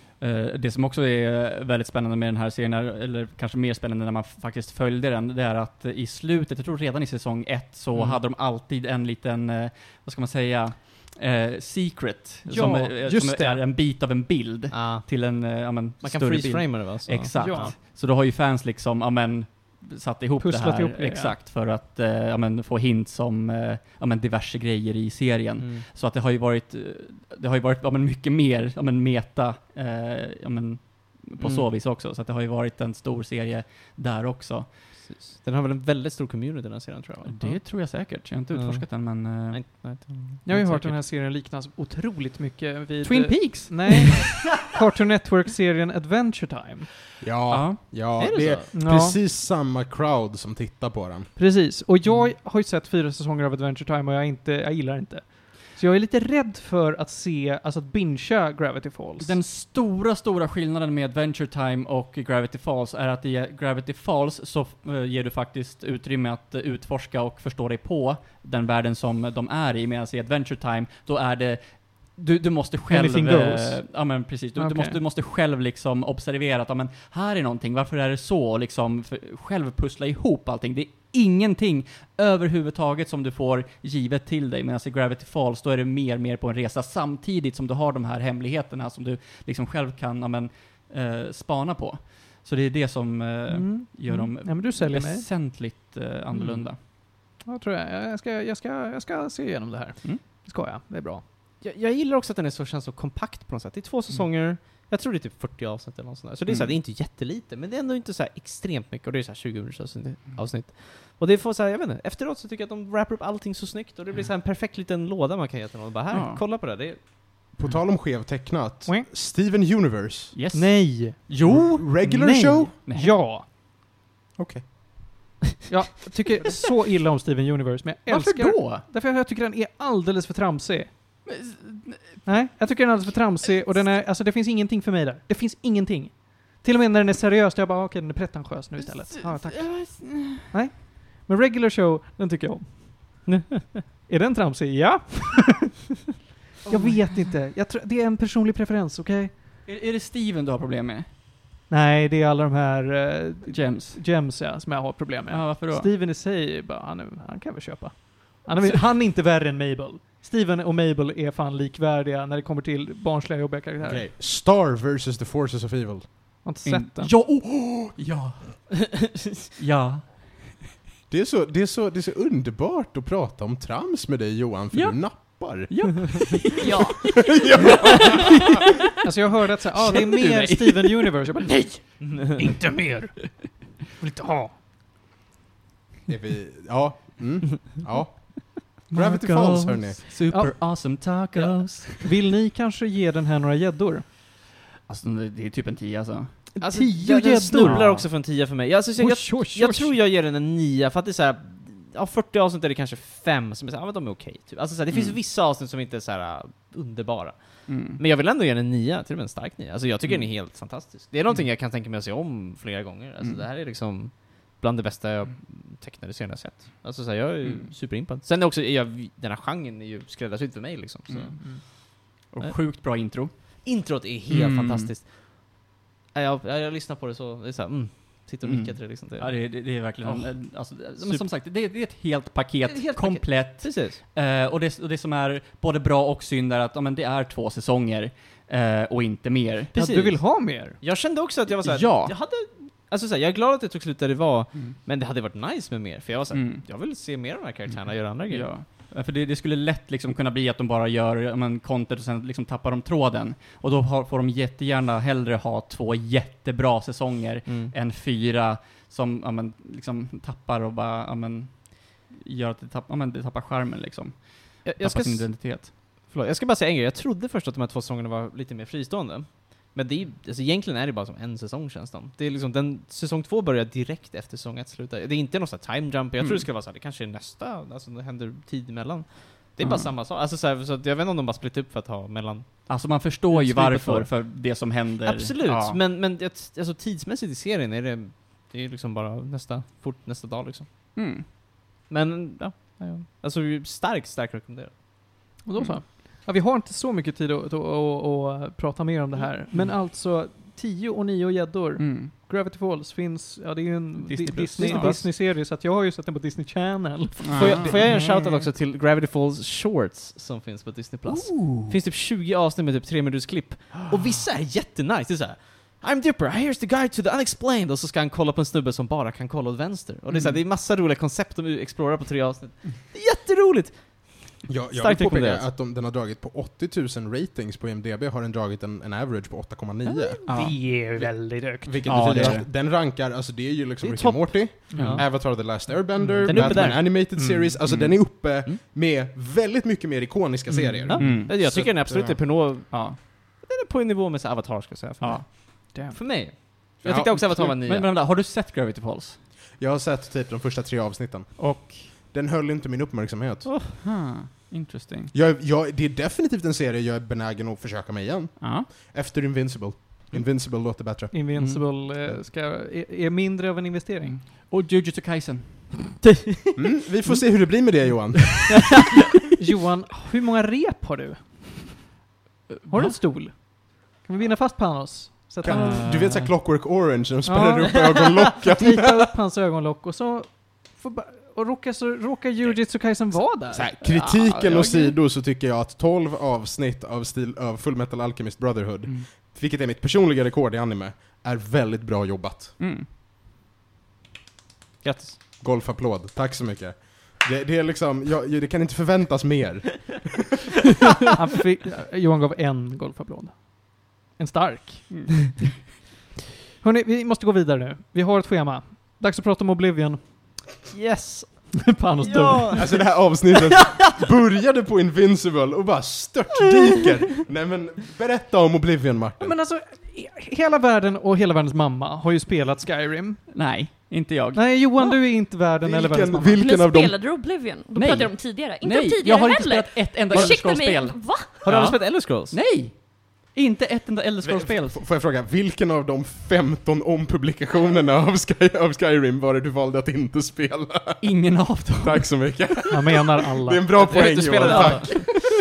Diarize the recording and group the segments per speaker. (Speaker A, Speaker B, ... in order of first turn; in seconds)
Speaker A: 0.2-34.9, 37.2-41.0, 43.0-44.5, 47.5-47.8, 52.1-52.3, 59.2-96.8, 106.5-106.8, 116.1-116.4, 120.3-122.3, 122.8-123.2, 128.1-128.8, 131.3-132.3, 139.1-140.5, 146.7-147.1, 149.7-151.1, 153.5-154.0, 155.3-155.9, 166.7-170.3, 174.7-176.8, 179.8-181.1, 188.9-192.1, 194.9-196.5, 197.6-198.1, 204.9-205.2, 207.7-208.0, 221.1-221.7, 222.3-223.3, 224.3-224.9, 228.4-239.8, 241.5-242.2, 246.3-246.7, 247.8-265.7, 276.2-276.4, 279.6-279.9, 282.7-285.8, 291.0-291.2, 301.8-302.1, 304.0-305.0, 307.2-308.1, 311.1-311.7, 320.1-320.4, 330.3-330.6, 331.9-332.5, 334.7-335.1, 336.0-336.9, 337.7-338.0, 340.9-341.4, 342.7-343.0, 345.0-345.3, 347.4-349.2, 351.4-351.9, 353.8-355.1, 358.4-358.7, 361.3-361.6, 364.1-366.0, 372.7-373.0, 375.4-376.3, 392.6-392.9, 423.3-424.6, 427.8-434.8, 441.0-442.3, 444.4-444.9
Speaker B: 7.9-8.2, 14.7-15.1, 16.0-17.8, 25.6-25.9, 31.4-31.7, 35.0-37.6, 38.5-40.4, 48.2-48.7, 101.6-117.0, 143.3-143.8, 182.0-182.4, 196.6-221.4, 223.6-231.3, 232.7-234.0, 239.7-248.5, 257.5-257.7, 264.6-284.3, 285.0-290.7, 291.9-294.8, 304.6-305.1, 307.4-325.5, 329.9-330.2, 333.8-335.1, 336.2-336.9, 340.9-347.9, 353.4-353.8, 394.8-395.2, 410.7-413.0, 431.4-432.4, 443.9-444.9
Speaker C: 12.5-13.1, 17.4-17.7, 20.4-21.4, 40.5-46.9, 48.7-49.2, 51.4-59.4, 72.9-73.8, 74.6-75.0, 93.5-95.3, 97.4-101.2, 120.5-123.5, 125.7-130.9, 132.2-143.3, 144.1-145.7, 146.7-149.3, 151.7-164.1, 166.4-167.1, 179.0-184.5, 190.3-190.8, 192.0-194.1, 196.6-198.1, 199.0-200.0, 239.7-240.8, 295.4-308.3, 330.2-332.4, 334.7-335.0, 337.1-337.5, 361.1-364.2, 369.4-371.8, 372.7-375.9, 377.2-384.8, 401.1-405.1, 406.6-410.5, 411.6-413.0, 419.2-423.2, 424.3-426.4, 442.7-445.1
Speaker D: 13.0-13.6, 47.2-51.3, 117.5-120.3, 121.5-122.7, 124.4-124.7, 163.8-166.1, 171.1-176.5, 177.4-178.5, 186.1-190.0, 324.5-342.2, 346.8-347.5, 349.6-353.5, 355.1-361.1, 366.6-368.9, 375.4-379.1, 383.5-392.6, 395.4-400.2, 412.6-419.4, 425.6-427.1, 434.2-441.1, 441.8-445.3
Speaker E: 176.6-177.0, 426.4-431.5